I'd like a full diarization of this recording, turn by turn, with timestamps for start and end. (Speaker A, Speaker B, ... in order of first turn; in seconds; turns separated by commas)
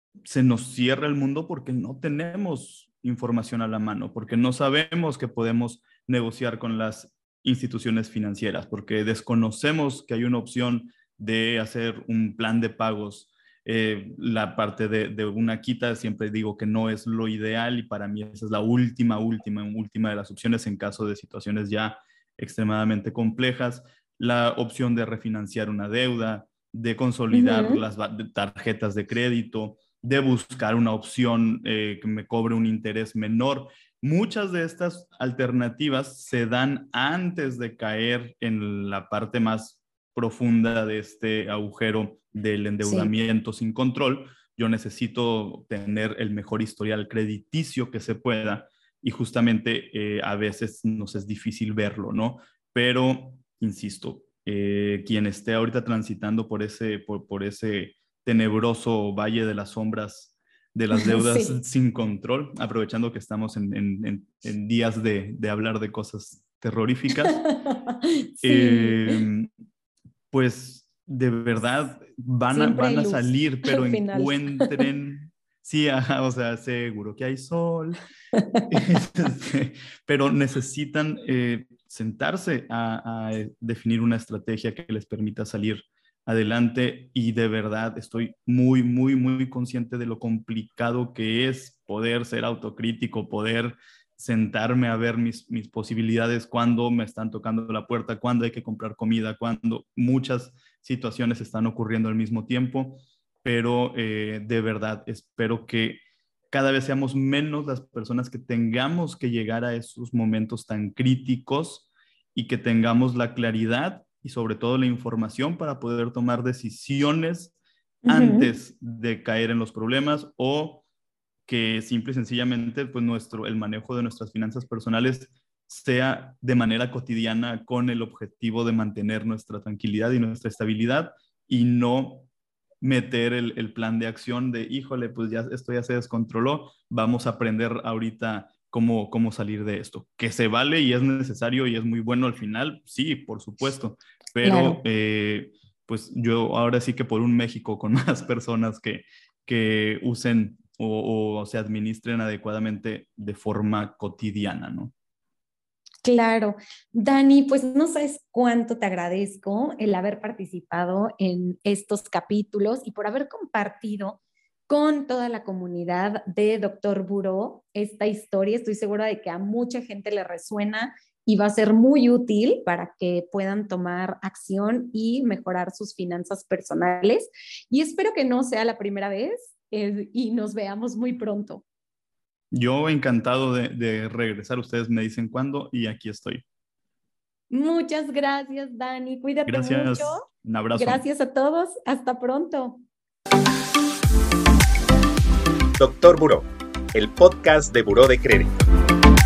Speaker A: 0.2-67.4, Speaker B: 27.3-27.8, Speaker B: 42.8-43.1, Speaker B: 60.9-61.6, Speaker B: 67.3-69.2, Speaker A: 68.4-69.5, Speaker A: 70.3-78.0, Speaker B: 72.5-74.8, Speaker B: 78.3-78.7, Speaker A: 78.7-117.5, Speaker B: 118.0-118.5, Speaker A: 118.1-120.8, Speaker A: 121.5-132.3, Speaker A: 132.8-154.9, Speaker B: 144.4-144.8, Speaker B: 156.0-181.6, Speaker A: 182.5-186.4, Speaker B: 187.5-192.8, Speaker A: 189.5-191.0, Speaker C: 195.8-198.7